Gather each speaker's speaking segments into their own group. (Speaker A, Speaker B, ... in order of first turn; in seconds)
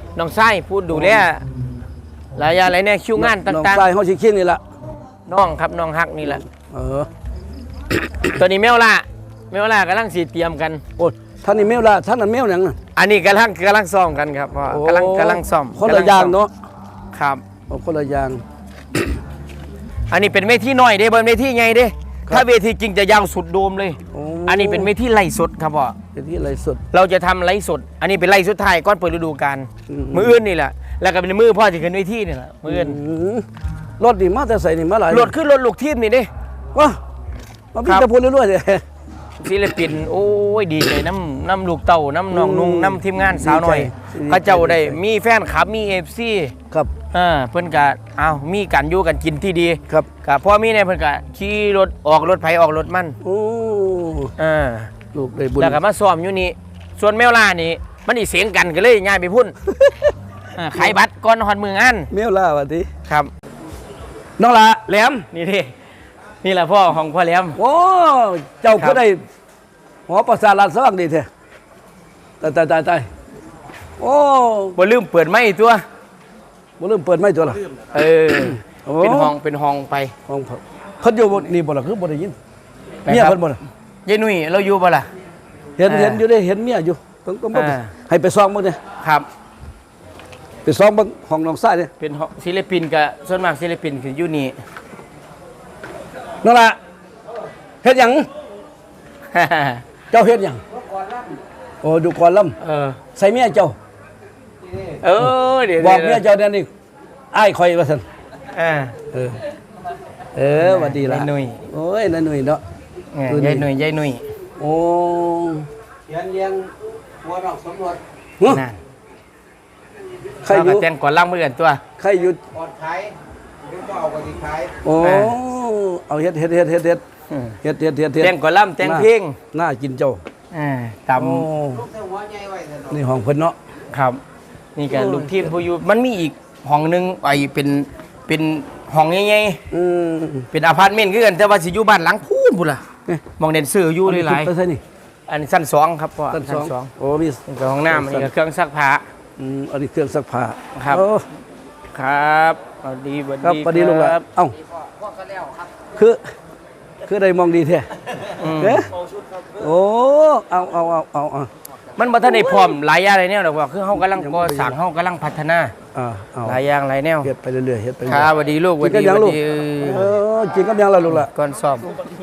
Speaker A: 0.1-1.4, 2.3-3.9, 5.3-6.4, 8.3-10.8, 12.9-16.4, 17.1-17.4, 20.1-26.0, 26.9-33.0, 35.1-36.3, 39.4-46.5, 47.1-53.2, 54.4-54.9, 55.6-59.6, 60.5-62.1, 65.3-65.7, 66.4-67.6, 68.7-69.0, 74.8-75.8, 77.9-80.1, 83.0-83.4, 84.0-85.1, 85.8-86.2, 87.5-87.9, 89.0-89.3, 92.0-94.5, 99.3-99.8, 102.6-103.0, 104.9-106.2, 108.5-108.9, 110.5-111.6, 113.1-114.2, 118.4-118.8, 120.5-121.8, 125.0-125.4, 127.3-127.6, 128.2-129.4, 130.5-131.5, 133.9-134.2, 134.7-139.6, 140.5-142.8, 143.4-144.5, 145.3-146.9, 147.5-149.0, 150.7-151.0, 151.9-154.2, 158.4-158.9, 162.0-165.7, 166.4-167.3, 168.1-170.1, 171.1-171.9
Speaker B: 0.9-1.2, 3.1-4.6, 6.2-7.1, 11.0-12.8, 14.7-16.5, 17.7-18.4, 24.1-24.9, 26.1-26.8, 29.9-30.4, 32.6-33.4, 34.0-35.3, 37.7-38.8, 42.3-45.0, 53.2-54.3, 55.1-55.8, 59.6-60.1, 62.1-62.9, 64.4-65.3, 67.5-69.2, 70.1-71.3, 72.4-73.1, 74.0-74.8, 76.8-77.6, 78.7-79.3, 80.3-82.3, 83.1-83.6, 85.8-88.8, 90.6-91.9, 96.4-96.8, 97.8-98.3, 100.1-100.6, 101.8-102.5, 103.1-103.8, 105.2-106.7, 107.3-108.0, 109.1-109.4, 110.3-112.6, 113.3-113.7, 114.6-115.7, 120.4-120.9, 122.0-122.4, 124.8-127.0, 127.6-130.2, 131.2-131.9, 132.9-133.6, 134.9-135.5, 139.7-140.5, 144.1-144.8, 146.3-148.3, 149.4-151.2, 153.4-154.5, 155.9-156.2, 157.0-157.9, 158.6-158.9, 159.6-161.5, 162.3-162.7, 163.9-164.8, 165.9-166.6, 167.2-171.3
Speaker C: 116.1-118.0, 122.6-123.1, 123.7-124.7, 132.0-132.8